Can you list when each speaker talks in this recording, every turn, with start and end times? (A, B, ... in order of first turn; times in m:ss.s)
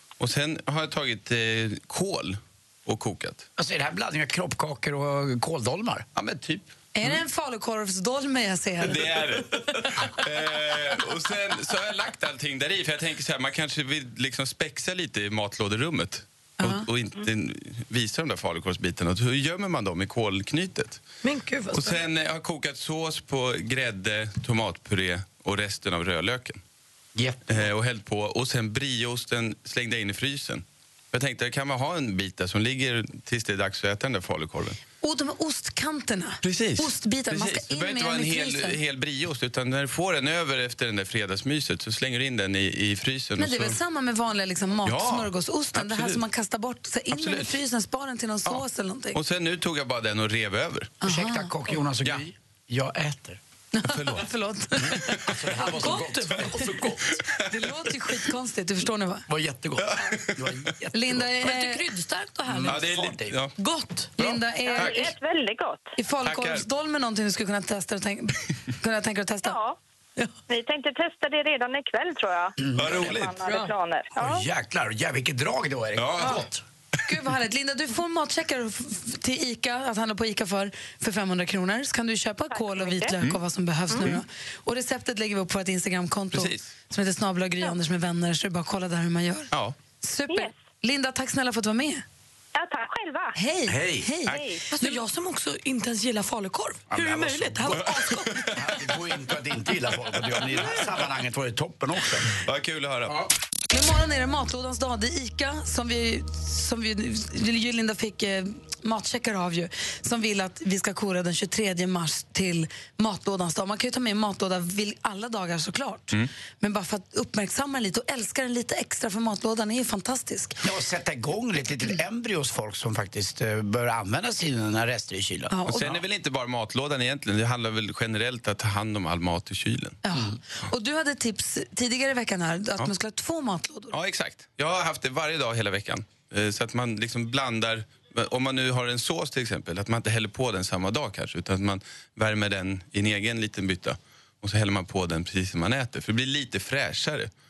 0:00.2-0:03.4 A
0:03.6-0:06.0 B
0:06.1-0:07.2 A
0:06.9-0:09.3 C
0:08.8-0:21.0 A
0:16.6-0:16.8 C
0:21.2-0:22.0 D
0:21.7-0:26.6 A
0:27.2-0:27.6 B
0:27.5-0:34.8 A
0:35.0-0:38.8 C
0:36.4-0:43.8 A
0:43.4-0:49.2 C
0:44.8-0:46.2 A
0:47.1-0:47.5 A
0:48.5-0:51.0 A
0:51.0-0:51.5 C
0:51.0-0:53.4 B
0:53.7-0:55.3 C
0:53.9-0:54.2 A
0:54.8-0:57.0 B
0:55.6-0:57.0 D
0:57.5-0:59.2 C
0:59.3-1:01.2 B
0:59.8-1:00.6 A
1:00.9-1:01.8 C
1:01.4-1:02.9 D
1:02.5-1:03.4 B
1:02.6-1:03.5 A
1:03.6-1:04.1 D
1:04.2-1:05.1 C
1:04.2-1:05.1 A
1:04.6-1:05.9 E
1:06.0-1:09.6 C
1:06.2-1:06.6 A
1:09.4-1:09.8 E
1:10.5-1:14.4 E
1:12.6-1:13.2 B
1:12.7-1:13.4 A
1:13.4-1:13.7 D
1:14.2-1:16.6 B
1:16.0-1:16.4 A
1:17.1-1:29.5 C
1:22.5-1:23.2 E
1:23.9-1:24.1 E
1:26.3-1:26.7 A
1:29.5-1:29.8 A
1:30.0-1:32.0 C
1:30.3-1:30.6 E
1:32.5-1:33.3 E
1:33.3-1:35.0 C
1:33.7-1:34.1 B
1:34.2-1:34.6 E
1:34.7-1:38.4 D
1:36.9-1:37.9 B
1:37.7-1:38.6 A
1:38.5-1:42.3 B
1:40.3-1:41.0 A
1:42.3-1:43.2 A
1:43.7-2:00.6 C
2:00.6-2:05.6 B
2:05.5-2:06.0 C
2:05.7-2:10.0 A
2:10.0-2:13.9 C
2:13.9-2:27.3 A